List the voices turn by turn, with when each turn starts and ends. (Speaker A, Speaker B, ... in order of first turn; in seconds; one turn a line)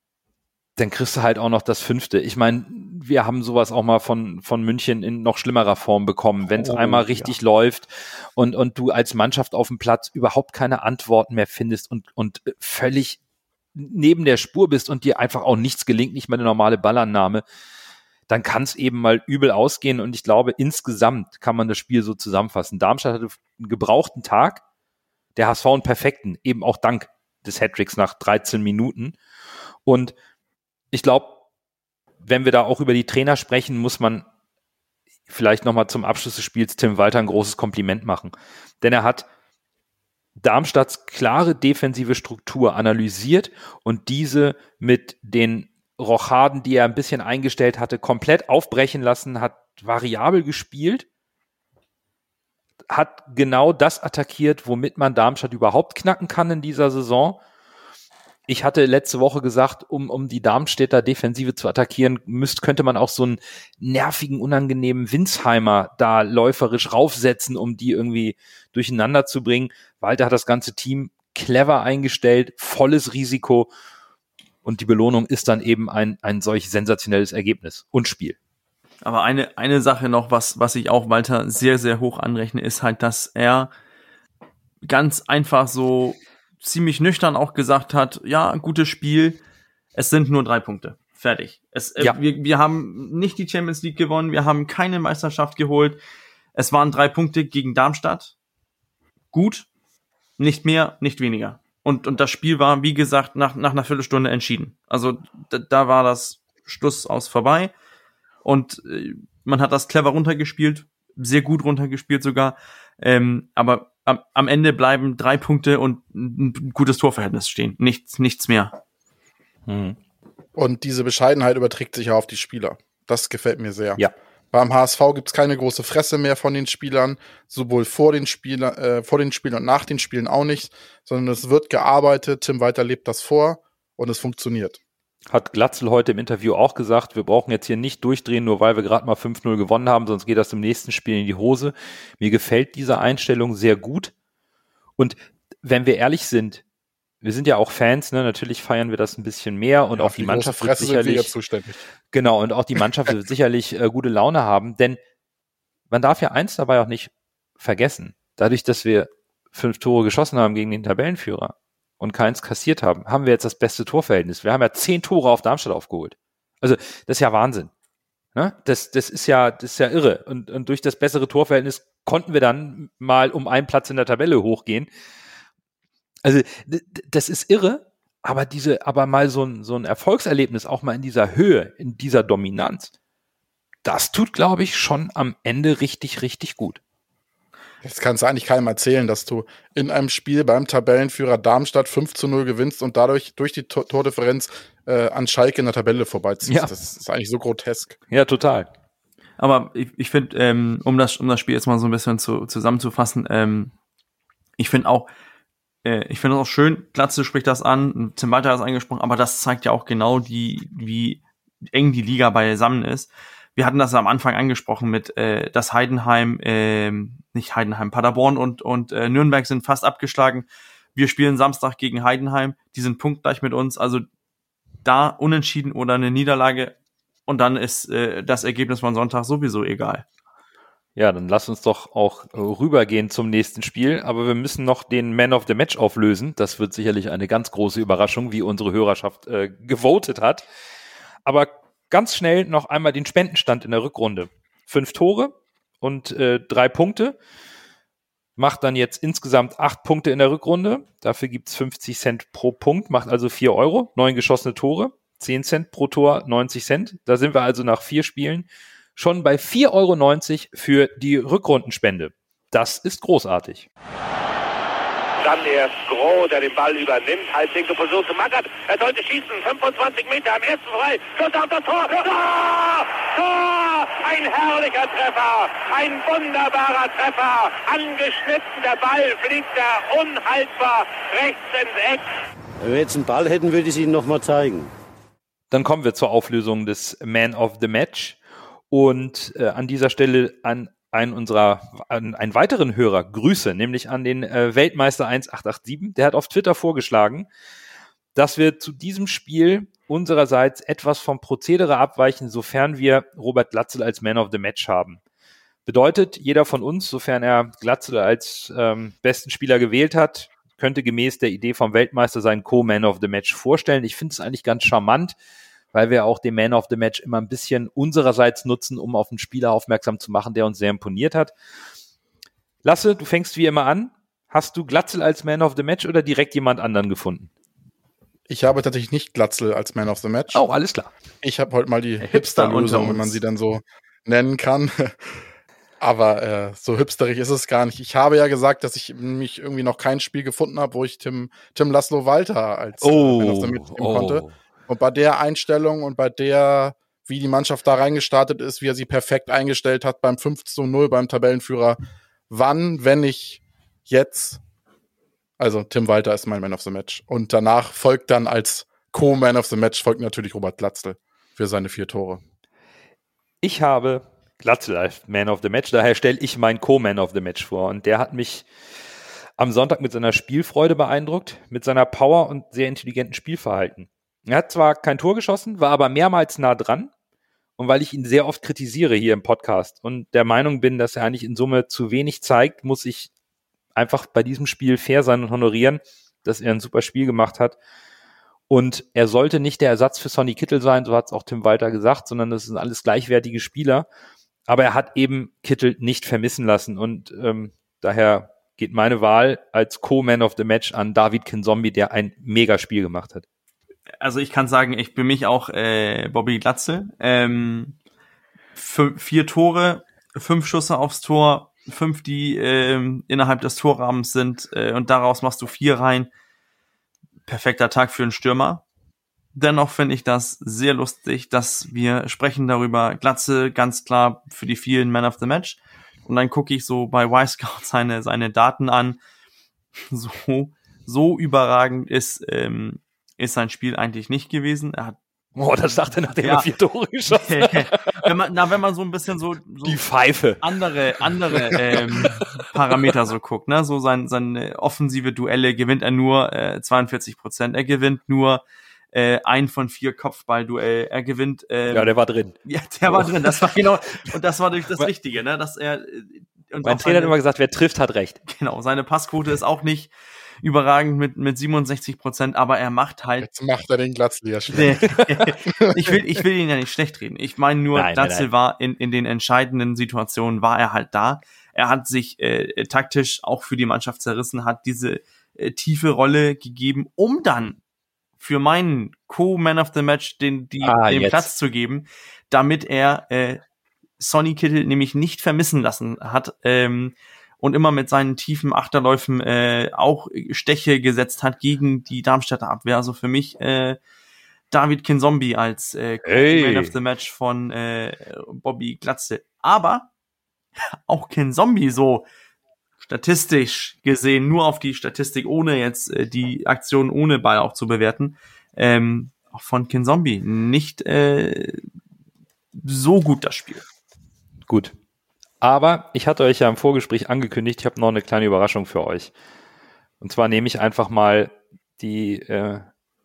Speaker A: 0.8-13.2
Speaker B: 6.6-7.3
Speaker A: 13.8-17.4
Speaker A: 18.3-24.6
Speaker A: 25.4-29.2
Speaker A: 29.9-30.1
Speaker A: 30.9-31.4
Speaker A: 32.2-34.2
Speaker A: 35.3-39.3
Speaker A: 40.4-51.1
Speaker A: 52.9-57.4
Speaker A: 58.5-73.7
Speaker A: 74.7-78.4
Speaker B: 79.0-83.7
Speaker B: 84.8-89.4
Speaker B: 90.0-96.0
Speaker B: 96.5-98.3
Speaker B: 99.3-99.7
Speaker B: 100.4-107.7
Speaker B: 108.4-118.8
Speaker A: 119.7-120.0
Speaker C: 120.6-134.8
Speaker A: 135.3-144.1
Speaker A: 145.0-146.6
Speaker A: 147.2-151.3
Speaker C: 149.9-151.8
Speaker A: 152.1-155.0
Speaker A: 155.9-167.7
Speaker A: 168.3-174.9
Speaker A: 176.2-182.9
Speaker A: 183.8-186.8
Speaker C: 187.8-198.0
Speaker A: 196.5-196.7
Speaker A: 198.1-198.7
Speaker B: 199.4-203.7
Speaker B: 204.6-205.1
Speaker B: 205.8-224.1
Speaker B: 224.8-226.8
Speaker B: 227.3-230.0
Speaker A: 231.0-240.4
Speaker A: 241.2-247.2
Speaker A: 248.4-263.7
Speaker D: 265.2-282.1
Speaker E: 282.6-284.7
Speaker A: 285.5-288.2
Speaker A: 288.7-297.3
Speaker A: 298.1-305.0
Speaker A: 305.7-315.1
Speaker A: 315.7-321.3
Speaker A: 322.6-327.3
Speaker C: 328.3-330.4
Speaker A: 330.3-330.9
Speaker C: 331.2-335.3
Speaker B: 332.0-333.2
Speaker C: 335.8-351.8
Speaker A: 342.8-344.3
Speaker C: 352.3-354.4
Speaker C: 355.4-362.2
Speaker A: 363.4-368.5
Speaker A: 369.4-376.9
Speaker A: 377.6-383.1
Speaker A: 383.8-387.6
Speaker A: 388.5-393.9
Speaker A: 394.5-403.2
Speaker B: 404.0-407.8
Speaker B: 408.6-416.1
Speaker B: 417.3-418.6
Speaker B: 419.4-429.0
Speaker B: 429.9-435.0
Speaker A: 435.4-438.0
Speaker B: 436.2-436.5
Speaker B: 437.1-439.8
Speaker A: 439.6-440.4
Speaker B: 440.4-451.9
Speaker A: 441.5-442.4
Speaker A: 451.7-452.4
Speaker B: 452.4-457.1
Speaker A: 452.9-453.6
Speaker A: 456.6-458.2
Speaker B: 458.3-463.3
Speaker C: 463.2-465.0
Speaker B: 464.5-477.6
Speaker A: 467.7-468.3
Speaker B: 478.2-483.4
Speaker A: 480.6-481.3
Speaker B: 484.0-493.8
Speaker B: 494.5-499.9
Speaker A: 496.1-496.8
Speaker B: 500.9-502.1
Speaker B: 502.8-511.6
Speaker B: 512.5-513.6
Speaker A: 514.5-514.7
Speaker A: 515.4-519.1
Speaker A: 520.0-522.7